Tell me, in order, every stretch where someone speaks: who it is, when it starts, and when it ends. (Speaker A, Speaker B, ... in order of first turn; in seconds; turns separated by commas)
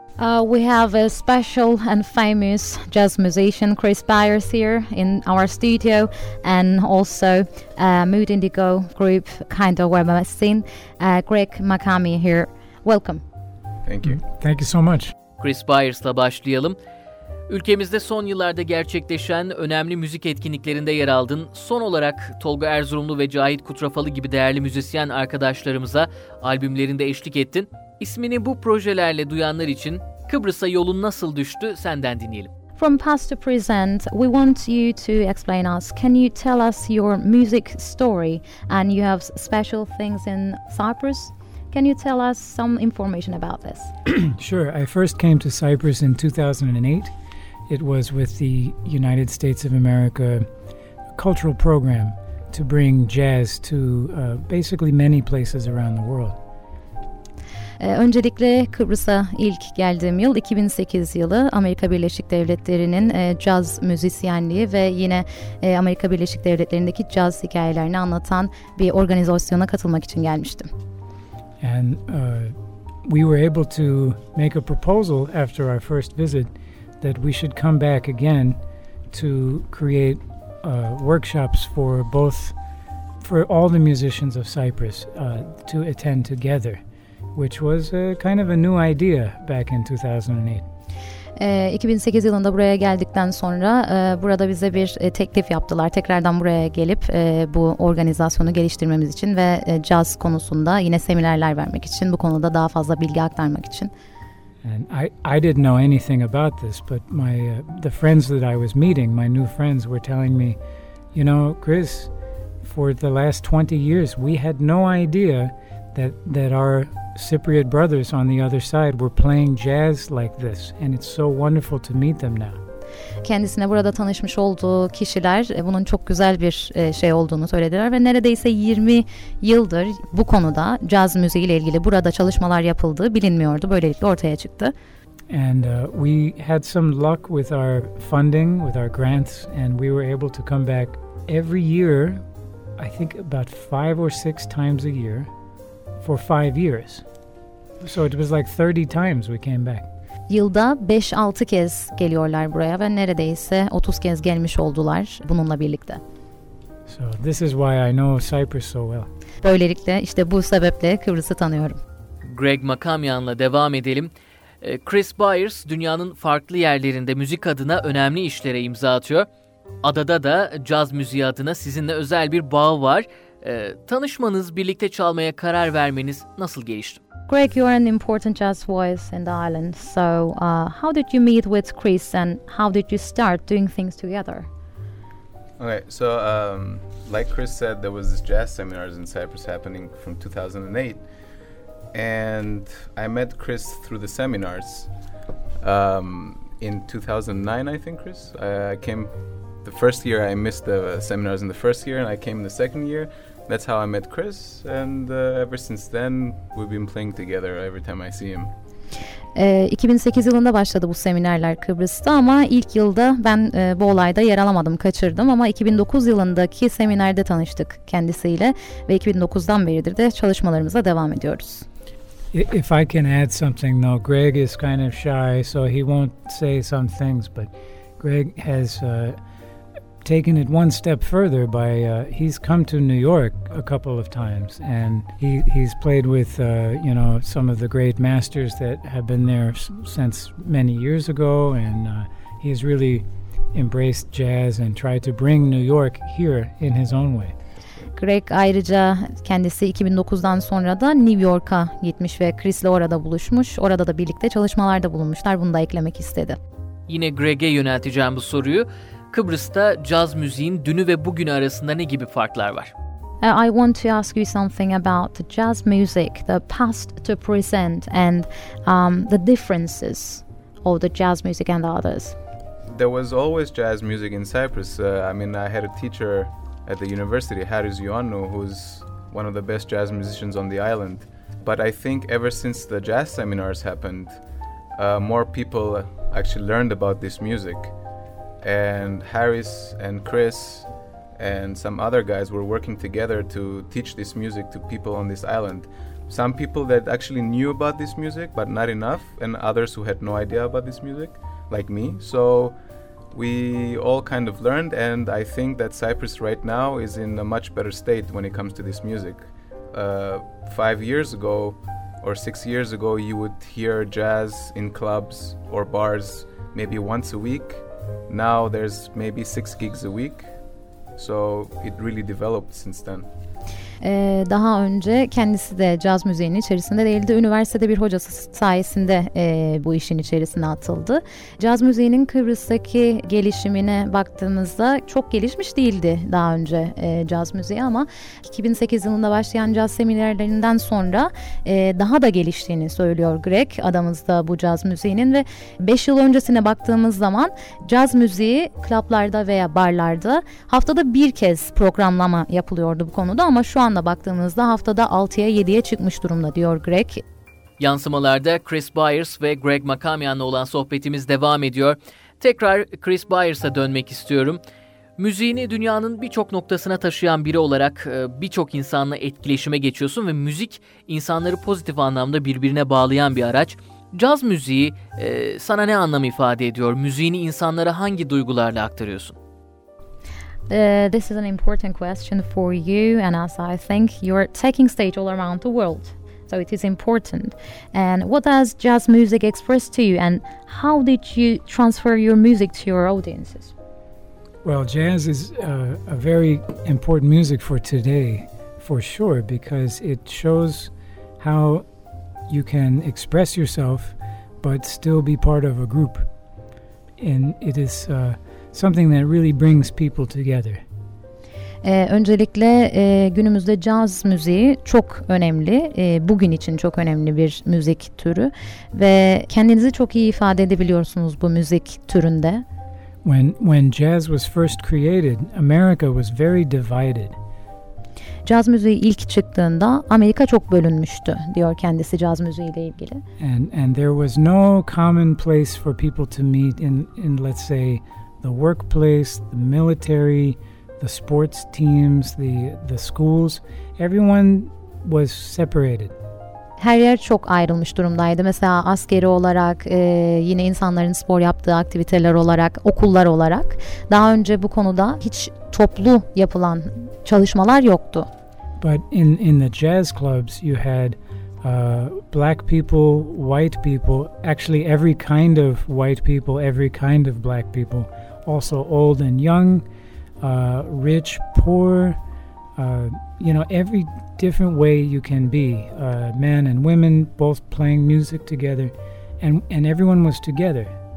Speaker A: 0.2-13.2, Speaker B: 13.8-14.2, Speaker C: 14.0-15.1, Speaker D: 15.4-16.8, Speaker D: 17.5-32.5, Speaker A: 32.8-43.9, Speaker C: 44.1-47.1, Speaker C: 47.7-50.5, Speaker C: 51.1-56.4, Speaker A: 57.8-70.7, Speaker C: 71.6-78.6, Speaker C: 79.1-82.6, Speaker C: 83.2-86.8, Speaker C: 87.3-90.7, Speaker A: 91.4-103.9, Speaker C: 104.6-110.6, Speaker C: 111.1-122.6, Speaker A: 123.2-134.7, Speaker C: 135.3-142.2, Speaker C: 142.8-145.3, Speaker C: 146.0-147.1, Speaker C: 147.8-149.9, Speaker A: 150.3-156.0, Speaker C: 156.9-159.1, Speaker A: 159.4-161.8, Speaker D: 162.2-169.3, Speaker D: 169.8-177.0, Speaker A: 177.3-184.5, Speaker B: 185.6-191.0, Speaker B: 191.9-194.9, Speaker B: 195.6-199.1, Speaker B: 199.6-208.5, Speaker A: 209.4-221.7, Speaker C: 222.3-229.2, Speaker C: 230.0-247.4, Speaker A: 248.0-256.4, Speaker D: 256.9-262.7, Speaker A: 263.2-272.2, Speaker B: 272.7-284.2, Speaker B: 284.8-287.7, Speaker B: 288.4-302.6, Speaker B: 303.1-320.3, Speaker B: 321.0-323.1, Speaker A: 323.8-357.0, Speaker D: 357.6-364.4, Speaker D: 365.0-379.2, Speaker A: 380.5-393.5, Speaker C: 394.4-401.6, Speaker C: 402.3-406.1, Speaker C: 407.0-410.6, Speaker A: 411.6-422.4, Speaker C: 423.0-427.2, Speaker A: 428.2-433.0, Speaker C: 433.2-445.9, Speaker A: 446.6-458.1, Speaker C: 458.6-469.6, Speaker C: 470.2-472.0, Speaker C: 472.6-480.7